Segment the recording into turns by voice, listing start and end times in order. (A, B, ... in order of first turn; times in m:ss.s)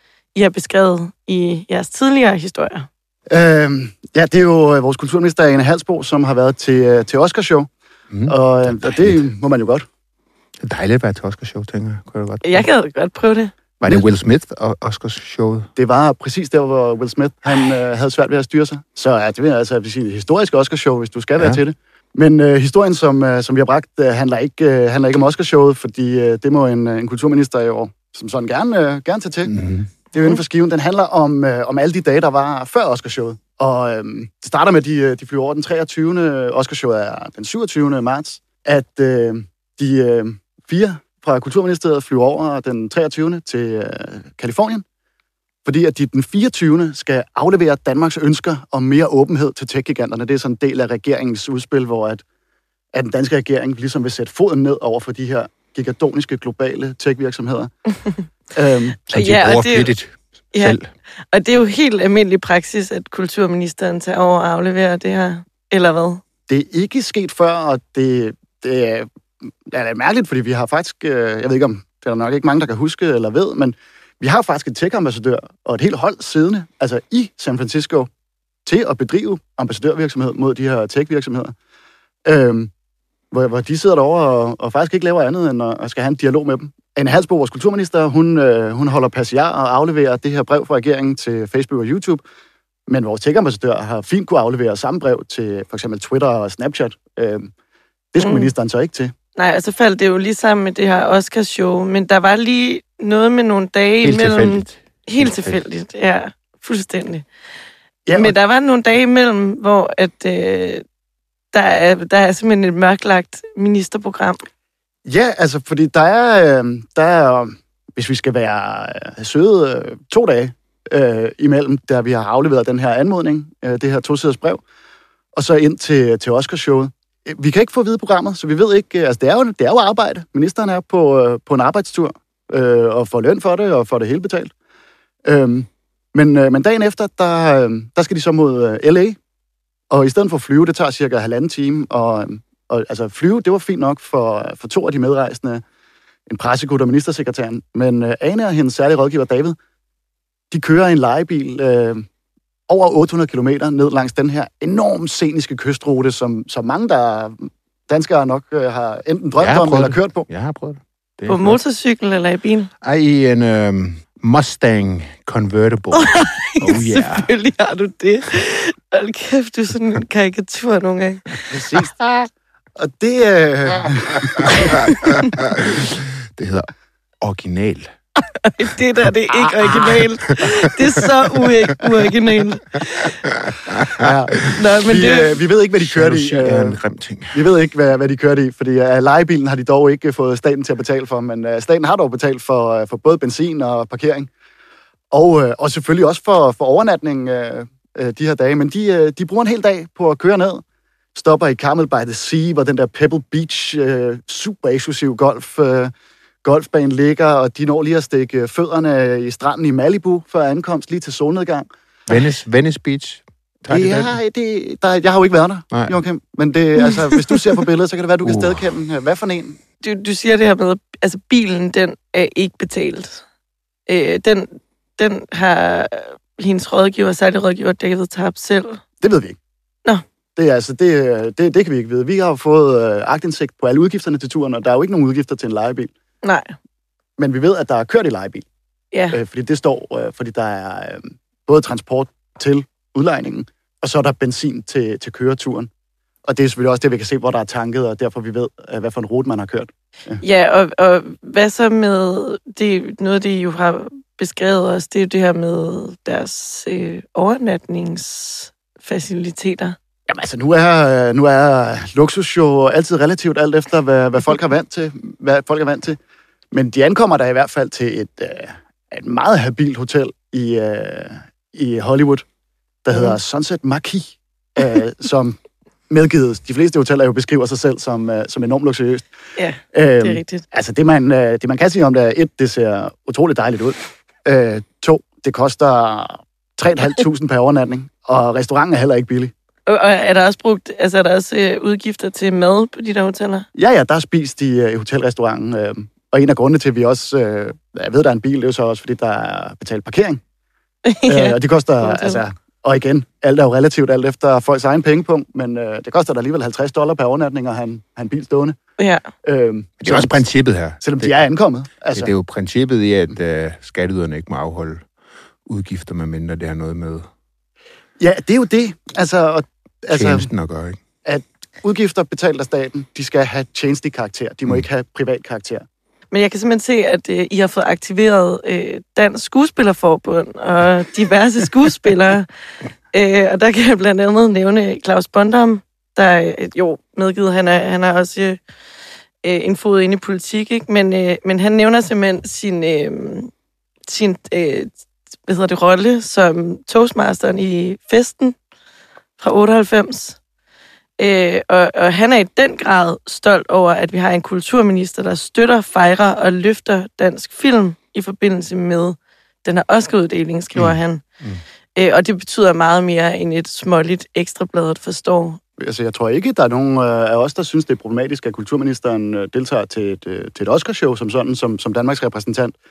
0:00.4-0:02.9 A
0:03.3-0:07.7 B
0:08.1-0:09.3 C
0:08.3-0:09.9 B
0:10.6-0:12.7 C
0:12.4-0:13.5 A
0:13.8-0:15.7 C
0:15.8-0:29.5 B
0:29.5-0:29.9 C
0:30.1-0:44.8 B
0:45.6-0:52.2 B
0:52.9-0:57.7 B
0:58.5-0:59.0 B
0:59.1-0:59.9 A
0:59.1-1:00.9 C
1:01.3-1:06.2 A
1:06.5-1:09.1 B
1:09.6-1:18.1 B
1:18.6-1:21.6 B
1:22.2-1:22.7 B
1:23.3-1:32.2 B
1:32.9-1:37.5 B
1:38.1-1:39.1 B
1:38.2-1:38.5 A
1:39.4-1:47.2 A
1:44.0-1:45.6 C
1:48.1-1:48.3 B
1:48.1-1:50.8 A
1:51.5-1:54.4 A
1:55.1-2:04.6 B
2:05.3-2:14.5 B
2:15.2-2:19.2 B
2:19.9-2:25.6 B
2:26.3-2:29.6 B
2:30.5-2:32.1 B
2:32.7-2:40.2 B
2:39.4-2:41.6 C
2:41.3-2:42.7 A
2:42.8-2:47.3 C
2:46.0-2:51.5 A
2:51.5-2:51.9 B
2:52.0-2:52.3 C
2:52.8-2:54.7 B
2:54.4-2:57.9 C
2:58.4-3:03.2 A
2:59.7-3:00.6 C
3:03.4-3:04.6 C
3:04.0-3:06.8 B
3:04.6-3:05.4 A
3:05.8-3:07.4 C
3:07.3-3:14.3 B
3:15.1-3:20.6 B
3:21.1-3:25.9 B
3:26.4-3:31.7 B
3:32.1-3:34.2 C
3:33.7-3:39.6 B
3:38.3-3:38.5 C
3:39.8-3:43.2 A
3:43.9-3:48.8 A
3:49.0-3:49.4 B
3:50.4-3:55.9 B
3:56.2-3:56.5 A
3:57.2-3:58.5 B
3:58.9-3:59.2 A
3:59.1-4:05.7 B
4:06.2-4:10.2 B
4:10.2-4:19.8 A
4:20.1-4:26.0 B
4:26.5-4:32.2 B
4:32.8-4:35.4 B
4:35.9-4:39.1 B
4:39.4-4:40.4 A
4:39.7-4:49.3 B
4:49.7-4:53.5 A
4:53.6-5:00.2 B
5:00.9-5:02.2 A
5:01.1-5:08.6 B
5:08.8-5:09.0 A
5:09.2-5:10.2 B
5:09.8-5:11.1 C
5:10.8-5:12.1 B
5:11.9-5:14.8 C
5:15.5-5:17.1 C
5:18.0-5:20.3 B
5:19.9-5:20.8 C
5:21.0-5:25.6 B
5:26.1-5:32.3 A
5:32.9-5:38.4 A
5:39.2-5:43.3 A
5:43.9-5:44.7 A
5:45.3-5:48.4 A
5:49.2-5:50.2 A
5:51.0-6:01.0 A
6:00.6-6:01.4 C
6:01.8-6:05.4 A
6:05.6-6:12.6 B